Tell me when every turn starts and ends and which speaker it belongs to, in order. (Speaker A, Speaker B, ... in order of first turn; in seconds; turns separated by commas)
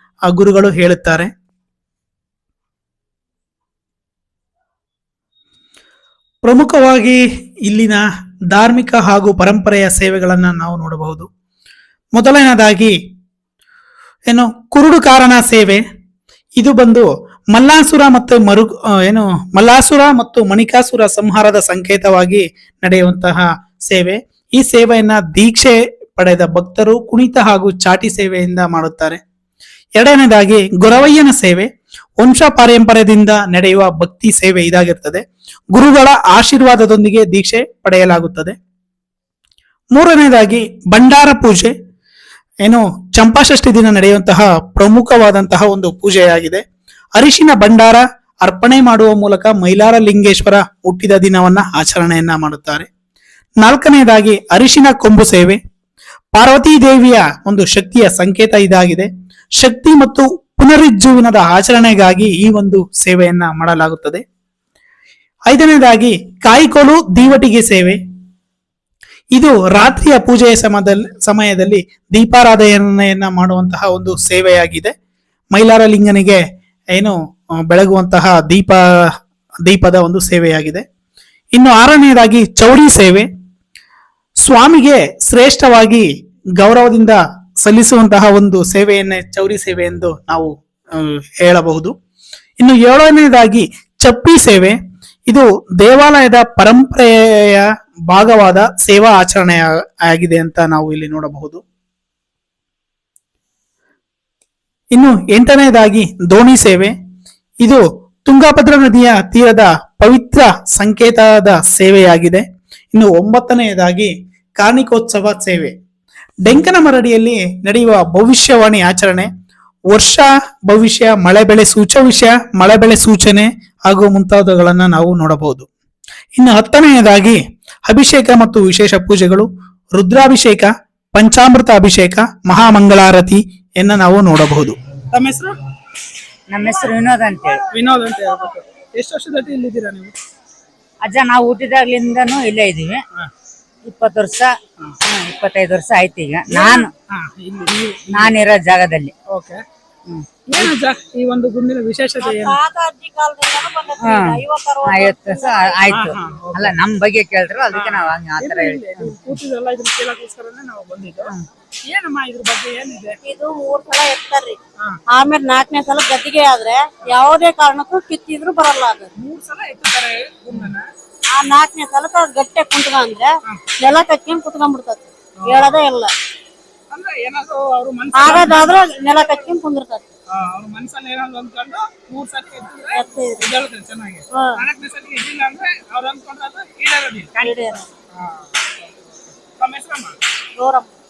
Speaker A: 0.3-1.3, Speaker A: 6.4-11.3, Speaker A: 12.2-12.9, Speaker A: 14.3-15.8, Speaker A: 16.6-29.2, Speaker A: 30.0-31.6, Speaker A: 32.2-35.2, Speaker A: 35.7-38.5, Speaker A: 39.9-41.7, Speaker A: 42.6-46.6, Speaker A: 47.1-52.9, Speaker A: 53.6-55.6, Speaker A: 56.3-59.1, Speaker A: 59.6-64.2, Speaker A: 65.5-68.0, Speaker A: 69.3-74.9, Speaker A: 75.5-76.4, Speaker A: 77.7-78.8, Speaker A: 79.6-80.8, Speaker A: 81.5-83.3, Speaker A: 84.5-86.0, Speaker A: 86.6-91.9, Speaker A: 92.6-94.7, Speaker A: 95.3-101.6, Speaker A: 104.9-106.9, Speaker A: 107.6-115.7, Speaker A: 116.4-119.3, Speaker A: 119.9-125.7, Speaker A: 126.4-135.5, Speaker B: 136.5-137.6, Speaker A: 137.7-140.1, Speaker B: 141.0-143.0, Speaker B: 143.8-144.5, Speaker B: 145.0-146.9, Speaker A: 146.5-148.3, Speaker B: 147.9-149.1, Speaker A: 149.3-149.6, Speaker A: 150.5-152.6, Speaker C: 152.2-155.8, Speaker B: 154.0-159.3, Speaker A: 155.9-156.7, Speaker A: 157.7-161.3, Speaker A: 161.9-163.2, Speaker C: 163.2-164.6, Speaker C: 165.1-169.1, Speaker A: 169.2-170.8, Speaker C: 171.3-176.1, Speaker A: 175.4-175.8, Speaker A: 176.9-179.5, Speaker C: 178.1-180.1, Speaker A: 180.3-187.5, Speaker C: 182.9-183.5, Speaker C: 184.3-184.6, Speaker C: 187.3-187.8, Speaker A: 188.3-188.7, Speaker A: 189.4-190.2, Speaker C: 190.6-190.9